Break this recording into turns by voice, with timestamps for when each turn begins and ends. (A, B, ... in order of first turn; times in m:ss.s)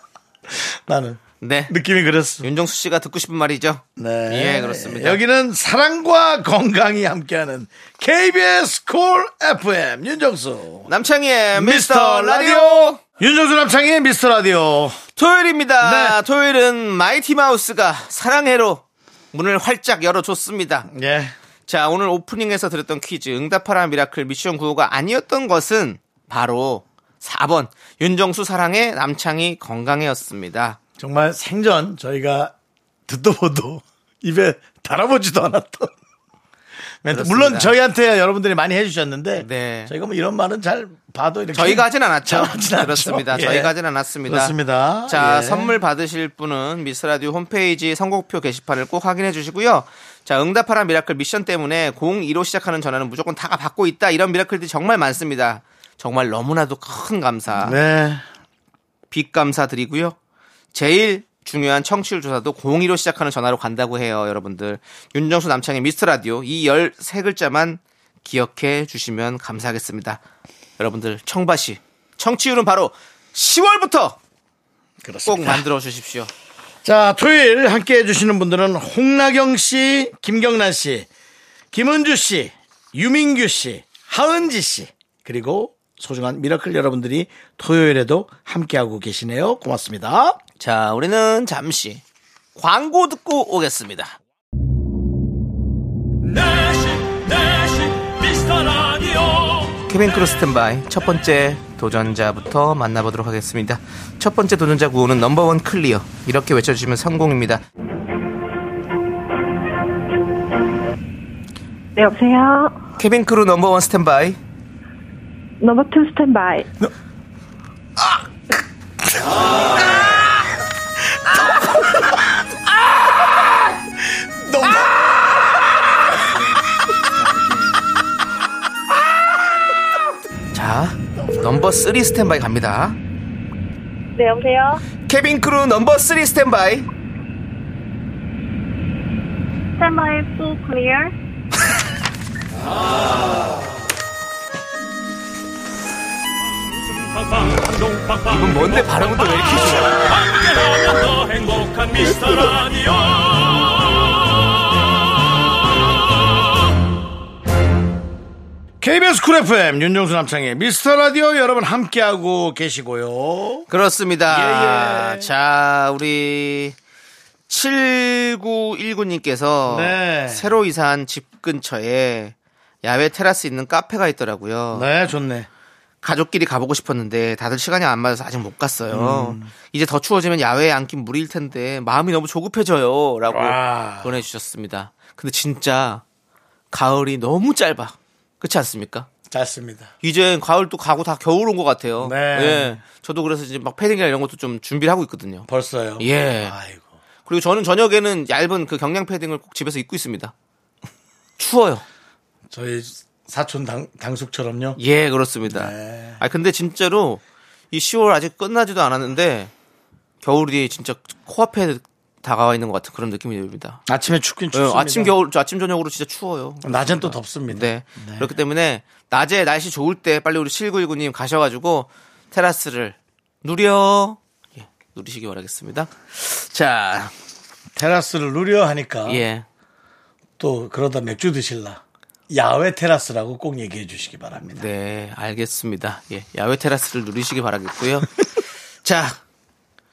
0:00.5-0:02.5 A
0:01.4-0:01.7 B
0:02.4-0:05.2 B
0:04.0-0:10.9 A
0:10.9-0:13.0 B
0:11.5-0:15.0 A
0:15.2-0:20.9 B
0:15.8-0:16.2 A
0:20.9-0:21.3 A
0:21.7-0:30.8 B
0:31.0-0:32.5 A
0:33.1-0:35.9 A
0:37.0-0:43.7 A
0:37.1-0:37.7 B
0:39.4-0:39.9 B
0:41.5-0:44.5 B
0:44.2-0:45.8 A
0:45.1-0:57.8 B
0:57.6-0:58.2 A
0:59.1-1:00.2 B
1:00.7-1:10.2 B
1:10.8-1:14.2 B
1:15.0-1:15.6 A
1:15.2-1:16.3 B
1:16.8-1:21.1 A
1:21.7-1:30.4 A
1:30.6-1:32.0 B
1:32.6-1:34.1 B
1:36.2-1:39.8 C
1:39.9-1:47.6 B
1:52.0-1:52.8 D
1:53.0-1:54.4 B
1:55.6-1:56.7 D
1:59.1-2:00.4 A
2:01.1-2:06.5 A
2:07.2-2:07.7 A
2:10.5-2:13.0 B
2:14.2-2:14.8 D
2:15.0-2:16.9 B
2:19.8-2:21.1 D
2:26.7-2:34.4 C
2:28.3-2:30.1 B
2:38.8-2:43.7 A
2:43.7-2:46.8 B
2:44.3-2:45.3 A
2:47.5-2:54.9 B
2:49.6-2:50.5 A
2:54.7-2:55.5 A
2:56.0-3:06.0 B
2:58.9-2:59.5 A
3:03.3-3:04.2 A
3:06.7-3:09.1 B
3:09.3-3:09.9 A
3:10.0-3:15.5 B
3:12.0-3:12.8 A
3:15.5-3:16.9 A
3:16.0-3:16.5 B
3:17.3-3:20.3 B
3:21.4-3:21.8 B
3:22.5-3:24.8 A
3:24.8-3:29.5 B
3:25.5-3:26.2 A
3:30.2-3:33.8 B
3:33.9-3:35.1 A
3:34.5-3:47.1 B
3:36.6-3:38.3 A
3:47.7-3:49.2 A
3:49.1-3:49.4 B
3:50.4-3:54.7 A
3:54.5-3:59.2 B